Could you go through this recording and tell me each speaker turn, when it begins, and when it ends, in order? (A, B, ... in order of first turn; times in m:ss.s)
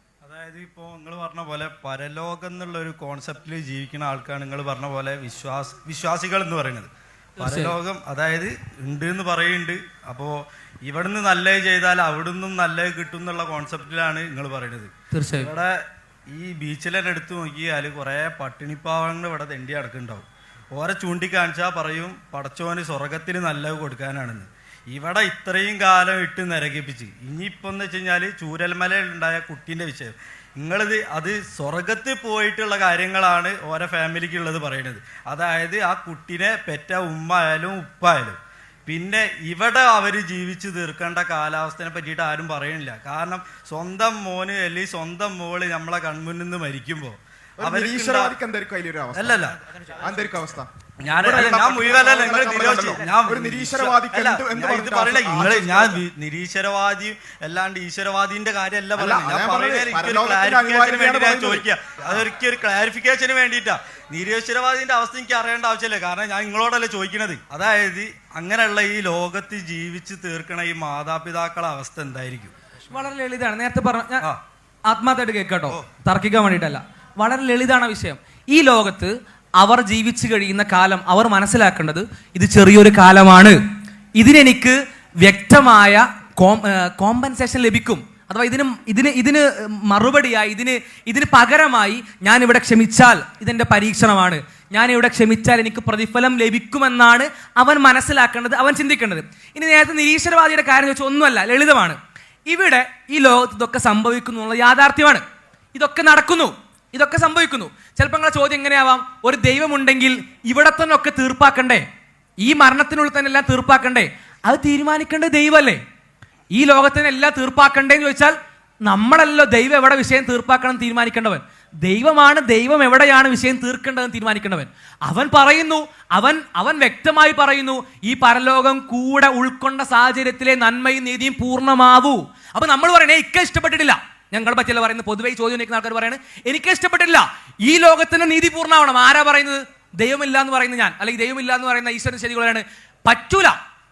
0:00.2-0:48.3 A
0:07.4-0:07.8 B
0:15.1-0:15.5 B
0:47.6-0:49.4 C
0:49.1-0:49.5 A
0:50.0-0:56.0 C
0:51.0-1:12.5 A
0:59.0-1:01.6 C
1:12.9-1:14.2 B
1:14.9-1:23.6 B
1:24.2-1:45.2 B
1:45.7-1:51.8 B
1:52.4-1:55.8 B
1:56.5-2:23.6 B